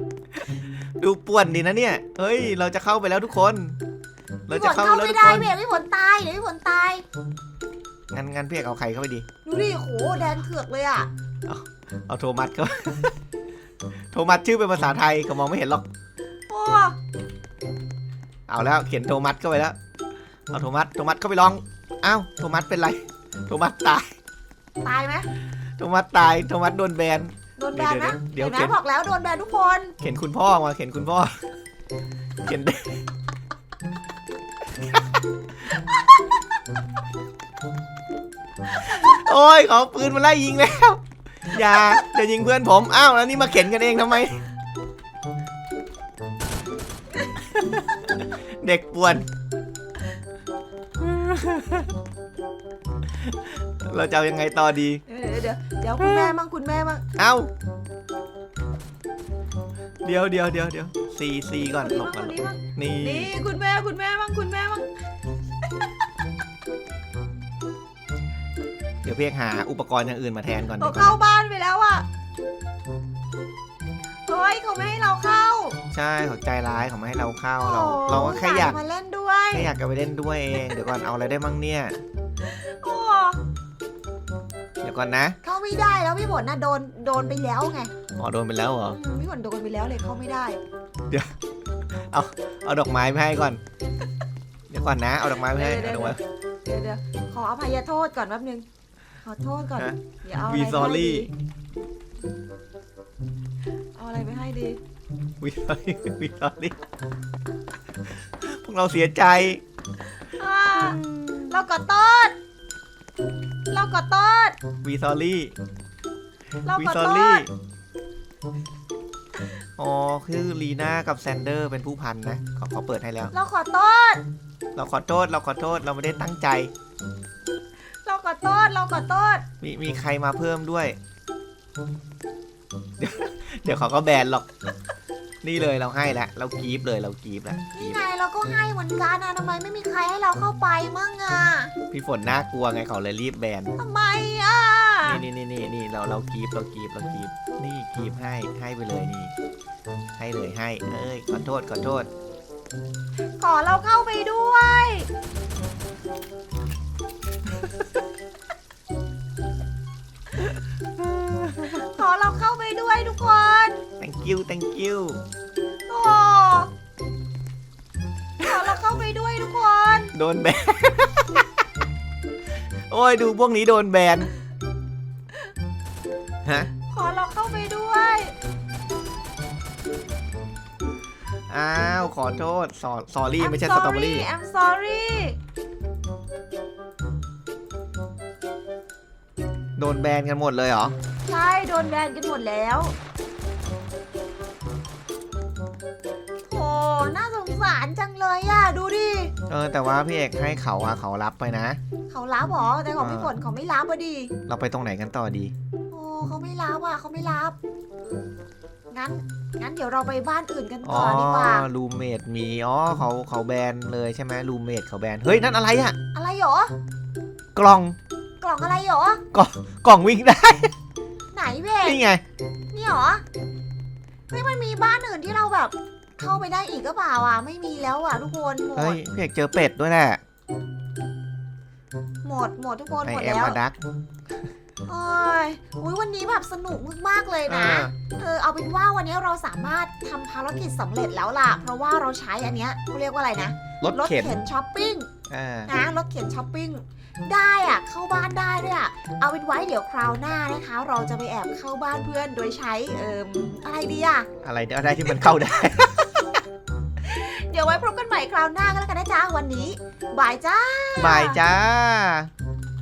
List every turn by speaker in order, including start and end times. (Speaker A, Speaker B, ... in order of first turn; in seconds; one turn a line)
Speaker A: 1.0-3.8
Speaker A: 4.5-5.5
Speaker B: 4.5-7.0
Speaker A: 8.1-9.2
Speaker B: 9.4-11.1
Speaker A: 11.4-13.1
Speaker A: 14.1-15.9
Speaker B: 16.5-16.9
Speaker A: 18.5-19.7
Speaker A: 20.5-24.1
Speaker B: 24.8-25.3
Speaker A: 25.8-28.8
Speaker B: 27.6-29.9
Speaker A: 30.0-31.3
Speaker A: 32.4-33.0
Speaker A: 38.8-44.4
Speaker A: 48.2-49.3
Speaker A: 51.0-51.9
Speaker A: 53.8-55.0
Speaker B: 55.1-57.0
Speaker A: 56.0-56.3
Speaker A: 57.2-57.5
Speaker A: 60.0-63.3
Speaker B: 61.6-64.9
Speaker B: 65.6-65.9
Speaker A: 69.0-71.2
Speaker B: 70.8-72.0
Speaker B: 74.3-75.8
Speaker A: 75.9-78.8
Speaker B: 77.6-79.7
Speaker A: 79.5-82.0
Speaker B: 82.5-83.4
Speaker A: 84.8-85.4
Speaker B: 85.4-87.9
Speaker A: 88.2-89.0
Speaker B: 88.9-90.6
Speaker A: 92.1-93.6
Speaker A: 94.7-96.2
Speaker B: 95.4-98.6
Speaker B: 99.2-101.3
Speaker A: 99.8-101.3
Speaker B: 104.0-104.8
Speaker A: 105.4-106.8
Speaker A: 108.4-109.6
Speaker B: 110.3-112.3
Speaker A: 110.8-111.6
Speaker B: 113.7-114.6
Speaker A: 114.8-115.5
Speaker B: 116.6-117.5
Speaker A: 116.7-117.5
Speaker A: 119.8-123.3
Speaker B: 123.3-124.2
Speaker A: 124.8-126.7
Speaker B: 128.0-129.4
Speaker A: 129.6-131.0
Speaker A: 133.0-134.5
Speaker A: 135.4-138.0
Speaker B: 137.7-141.7
Speaker A: 141.9-143.7
Speaker B: 143.8-145.2
Speaker A: 145.1-149.3
Speaker A: 150.2-152.1
Speaker B: 153.4-155.1
Speaker A: 161.2-161.7
Speaker B: 161.6-163.8
Speaker A: 164.0-165.2
Speaker B: 165.9-166.7
Speaker B: 168.4-170.1
Speaker A: 170.1-171.4
Speaker A: 172.9-174.3
Speaker B: 176.9-178.3
Speaker A: 181.5-184.3
Speaker B: 183.4-185.3
Speaker A: 189.8-190.9
Speaker B: 191.3-192.9
Speaker B: 196.5-199.3
Speaker A: 199.5-201.8
Speaker B: 202.1-204.3
Speaker A: 203.0-203.3
Speaker A: 204.5-205.5
Speaker B: 205.9-207.6
Speaker B: 208.9-211.7
Speaker A: 210.8-215.9
Speaker B: 216.1-216.7
Speaker A: 217.5-218.0
Speaker B: 218.4-219.2
Speaker A: 219.3-220.7
Speaker B: 221.3-222.0
Speaker A: 221.8-222.2
Speaker B: 222.7-223.2
Speaker B: 224.3-229.0
Speaker A: 228.8-230.2
Speaker B: 232.2-233.6
Speaker A: 233.0-233.8
Speaker B: 234.8-245.1
Speaker A: 237.5-237.9
Speaker A: 243.8-244.4
Speaker A: 245.3-245.7
Speaker B: 245.7-254.3
Speaker A: 254.4-256.3
Speaker B: 257.0-261.4
Speaker A: 261.0-262.3